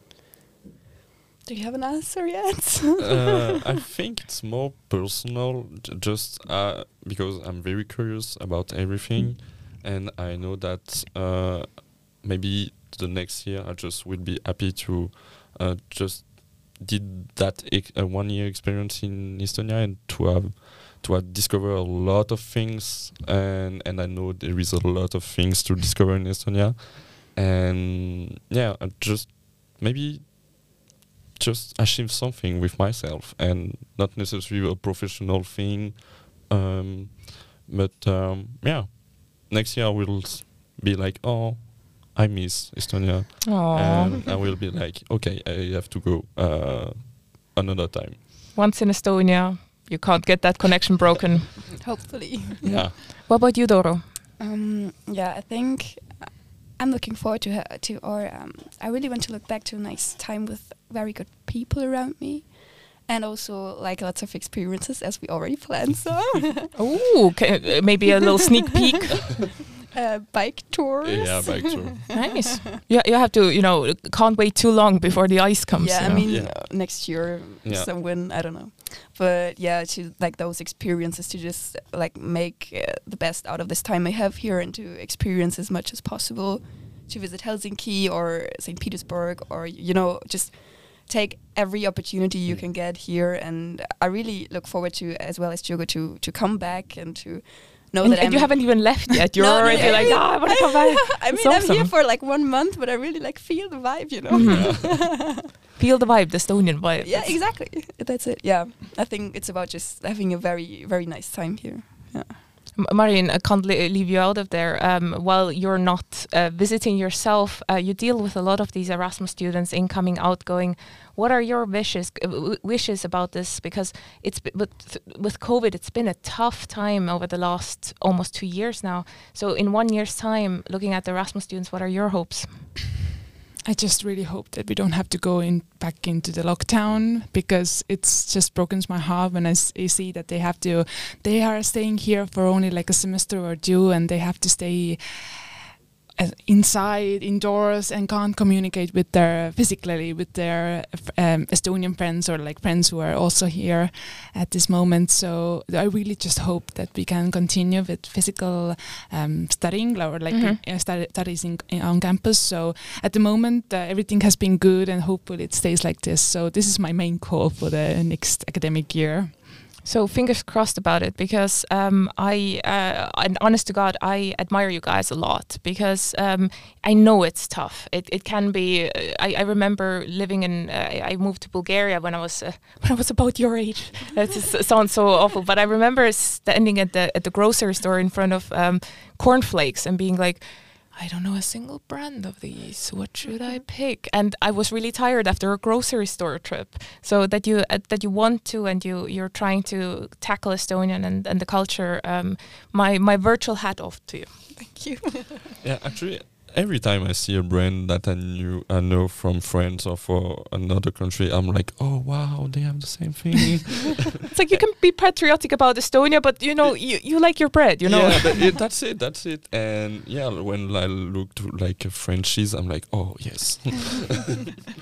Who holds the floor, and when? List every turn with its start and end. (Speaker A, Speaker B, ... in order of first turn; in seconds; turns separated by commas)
Speaker A: 1.4-3.3, Speaker B: 3.0-30.8, Speaker B: 31.4-48.2, Speaker C: 43.4-44.1, Speaker C: 48.5-51.8, Speaker A: 51.8-52.9, Speaker B: 52.6-53.0, Speaker C: 53.0-54.0, Speaker A: 54.4-66.7, Speaker C: 66.8-69.3, Speaker A: 69.9-72.2, Speaker B: 71.0-72.4, Speaker C: 72.1-76.3, Speaker A: 75.8-105.5, Speaker B: 76.2-77.9, Speaker C: 98.0-101.9, Speaker B: 99.6-100.1, Speaker C: 104.3-107.4, Speaker B: 104.3-104.9, Speaker A: 107.0-112.4, Speaker C: 112.8-132.8, Speaker D: 133.6-145.6, Speaker D: 146.2-169.4, Speaker C: 160.3-160.6, Speaker C: 169.8-204.6, Speaker A: 204.6-205.6, Speaker B: 205.6-214.6, Speaker C: 214.3-218.5, Speaker B: 217.8-224.6